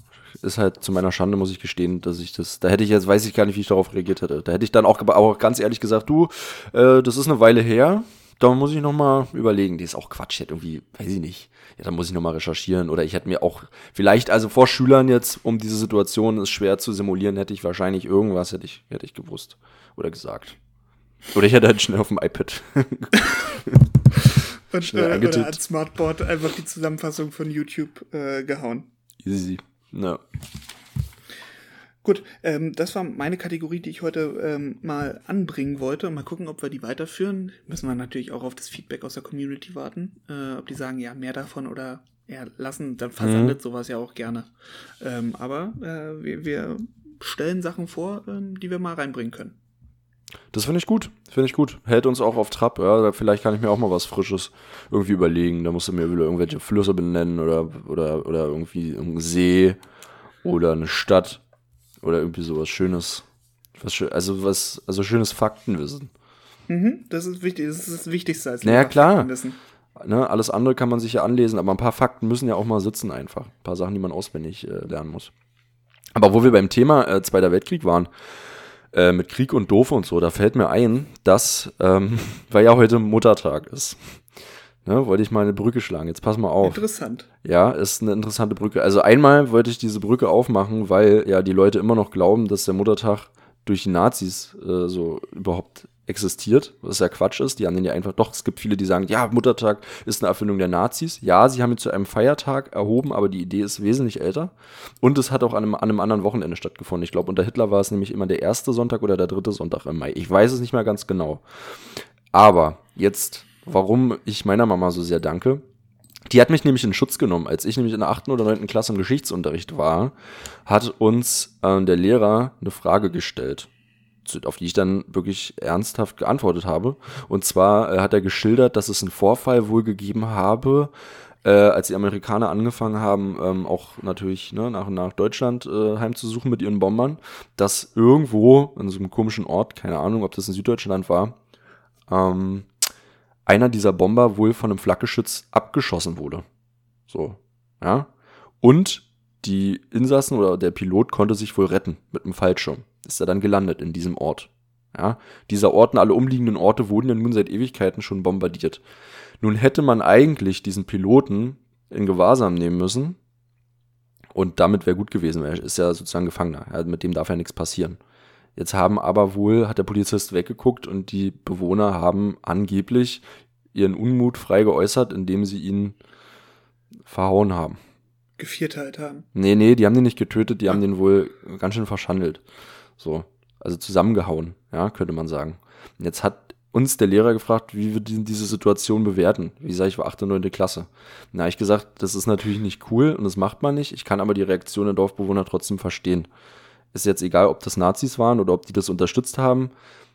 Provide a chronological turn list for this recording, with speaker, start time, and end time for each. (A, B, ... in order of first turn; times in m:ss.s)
0:00.4-0:20.6 A
0:21.3-0:23.9 A
0:24.7-0:28.9 B
0:24.8-0:25.6 A
0:29.2-0:30.2 A
0:32.0-0:44.5 B
0:43.2-0:43.6 A
0:45.0-0:49.5 B
0:50.5-0:59.8 A
1:00.4-1:01.4 A
1:02.0-1:03.2 A
1:03.8-1:06.1 A
1:06.7-1:09.6 B
1:08.6-1:09.3 A
1:10.0-1:15.3 A
1:16.1-1:18.1 A
1:18.9-1:24.2 A
1:24.8-1:26.8 A
1:26.6-1:27.3 B
1:27.4-1:51.4 A
1:52.3-1:55.6 A
1:56.3-2:00.1 A
2:00.6-2:03.7 A
2:04.2-2:10.9 A
2:11.4-2:21.4 A
2:22.1-2:22.7 A
2:23.4-2:26.4 A
2:27.1-2:28.1 A
2:28.6-2:38.8 A
2:39.4-2:43.2 A
2:44.3-2:48.0 A
2:48.6-2:53.2 A
2:53.7-2:56.0 A
2:57.0-2:57.8 A
2:58.4-2:59.2 B
2:59.3-3:02.4 A
3:03.0-3:16.3 A
3:16.9-3:19.7 A